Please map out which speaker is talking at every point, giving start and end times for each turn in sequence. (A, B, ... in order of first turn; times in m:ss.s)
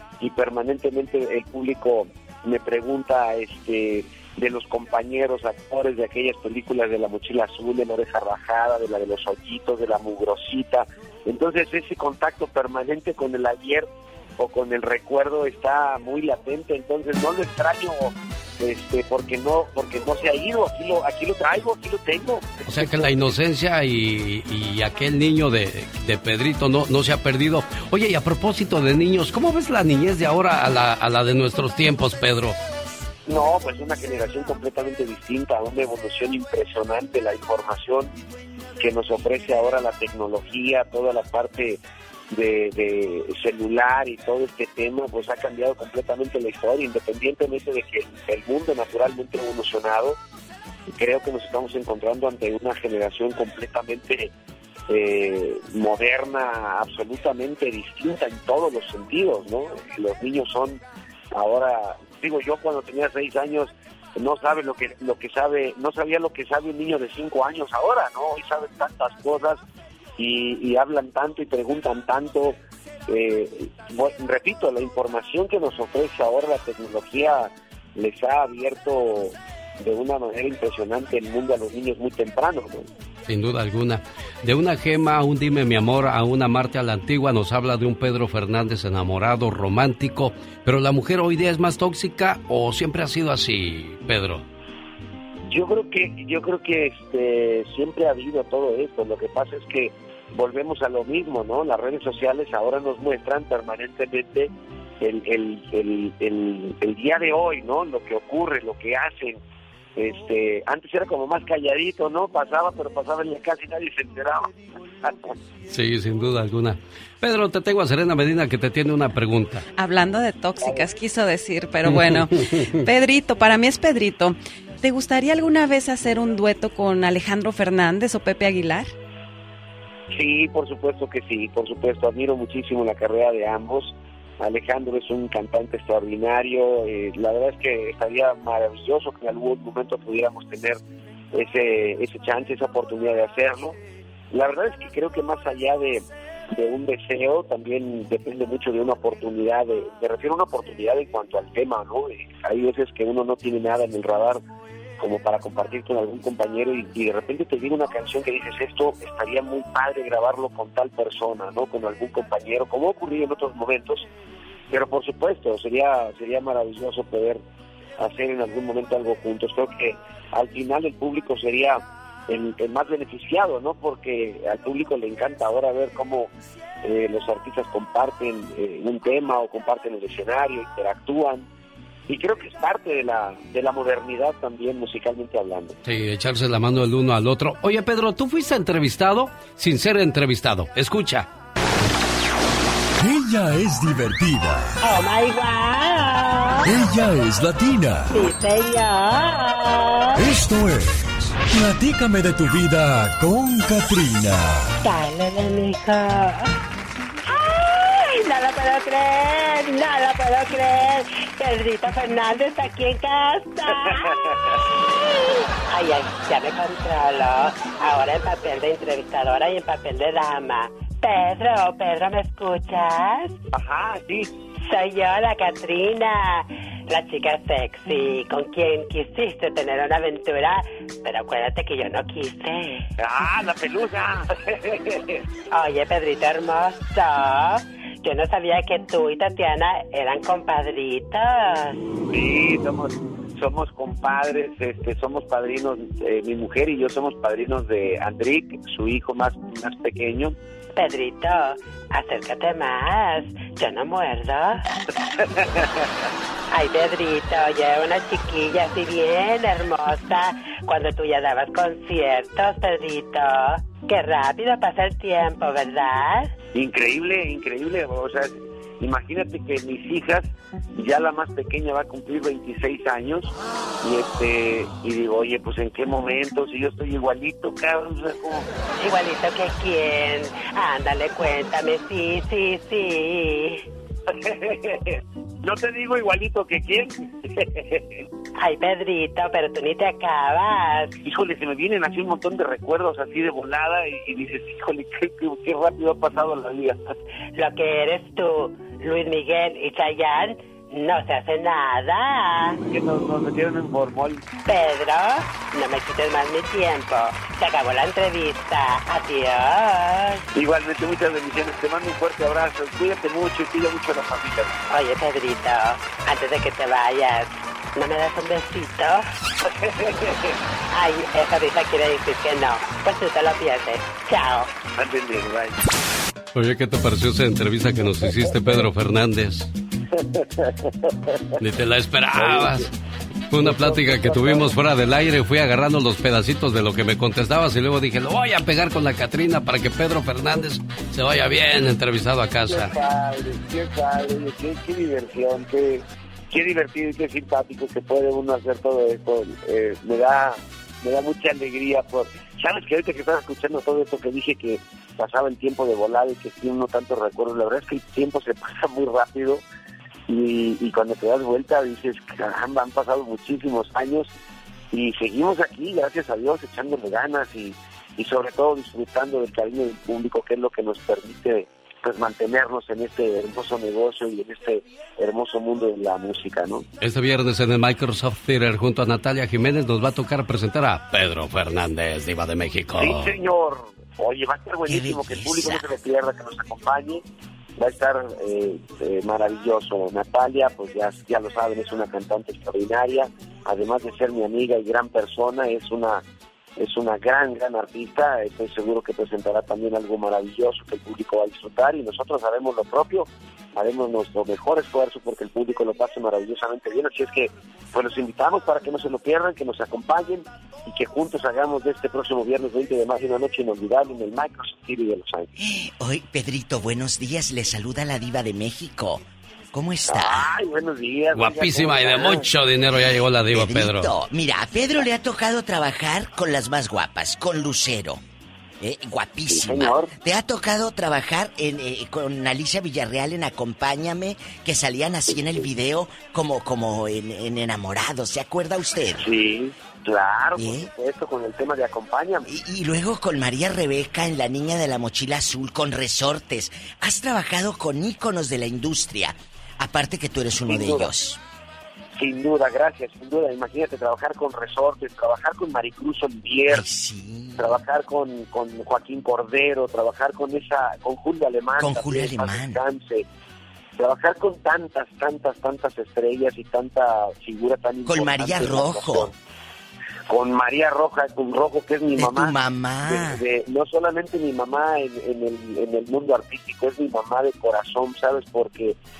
0:00.2-0:23.3 A
0:22.7-0:32.6 B
0:33.3-0:38.1 A
0:38.8-0:50.2 A
0:50.9-0:54.3 A
0:54.9-1:00.8 A
1:01.3-1:09.6 A
1:10.2-1:22.9 A
1:23.3-1:34.4 B
1:35.5-1:49.4 A
1:50.0-1:55.3 A
1:55.7-1:59.6 B
1:59.8-2:08.9 C
2:00.6-2:00.8 A
2:01.9-2:02.6 B
2:10.1-2:20.8 A
2:21.3-2:23.8 A
2:24.3-2:34.4 A
2:35.0-2:44.1 A
2:44.7-2:47.4 A
2:48.0-2:56.3 A
2:56.8-3:01.5 A
3:02.1-3:05.8 A
3:05.8-3:11.3 B
3:13.0-3:14.8 D
3:14.8-3:16.7 E
3:16.6-3:18.2 D
3:18.1-3:20.2 E
3:20.2-3:24.8 D
3:24.8-3:26.5 E
3:27.3-3:43.4 E
3:33.9-3:34.3 A
3:43.5-3:44.3 A
3:44.7-3:52.9 E
3:53.0-3:55.2 A
3:55.5-4:01.8 E
4:02.1-4:10.3 A
4:10.7-4:14.7 E
4:15.2-4:15.7 A
4:16.5-4:26.3 E
4:26.5-4:33.3 A
4:33.8-4:38.5 A
4:38.8-4:43.6 E
4:44.1-4:48.0 A
4:48.4-4:50.9 E
4:51.0-4:56.9 A
4:57.3-5:02.6 E
5:02.7-5:04.2 A
5:04.4-5:10.2 E
5:10.3-5:14.6 A
5:14.7-5:19.1 E
5:19.6-5:20.2 A
5:20.7-5:24.6 E
5:24.7-5:25.6 A
5:26.3-5:29.5 B
5:29.9-5:31.2 A
5:31.4-5:32.7 B
5:32.1-5:32.6 A
5:33.3-5:42.7 B
5:33.3-5:34.5 A
5:42.5-5:59.4 A
6:00.1-6:04.1 A
6:04.7-6:16.6 A
6:16.8-6:23.1 B
6:22.8-6:27.0 A
6:24.7-6:25.7 F
6:27.6-6:36.0 A
6:36.6-6:55.3 A
6:55.4-7:00.3 F
6:59.8-7:02.3 A
7:01.1-7:03.9 B
7:02.8-7:08.0 F
7:08.6-7:19.1 F
7:09.3-7:09.9 A
7:19.0-7:22.2 A
7:20.4-7:20.7 F
7:22.2-7:31.2 F
7:30.5-7:30.9 A
7:32.0-7:36.6 A
7:36.5-7:37.6 F
7:37.4-7:43.0 A
7:41.6-7:42.6 F
7:43.8-7:49.1 A
7:47.8-7:49.1 F
7:50.1-7:52.3 A
7:52.0-7:53.2 F
7:52.9-7:58.8 A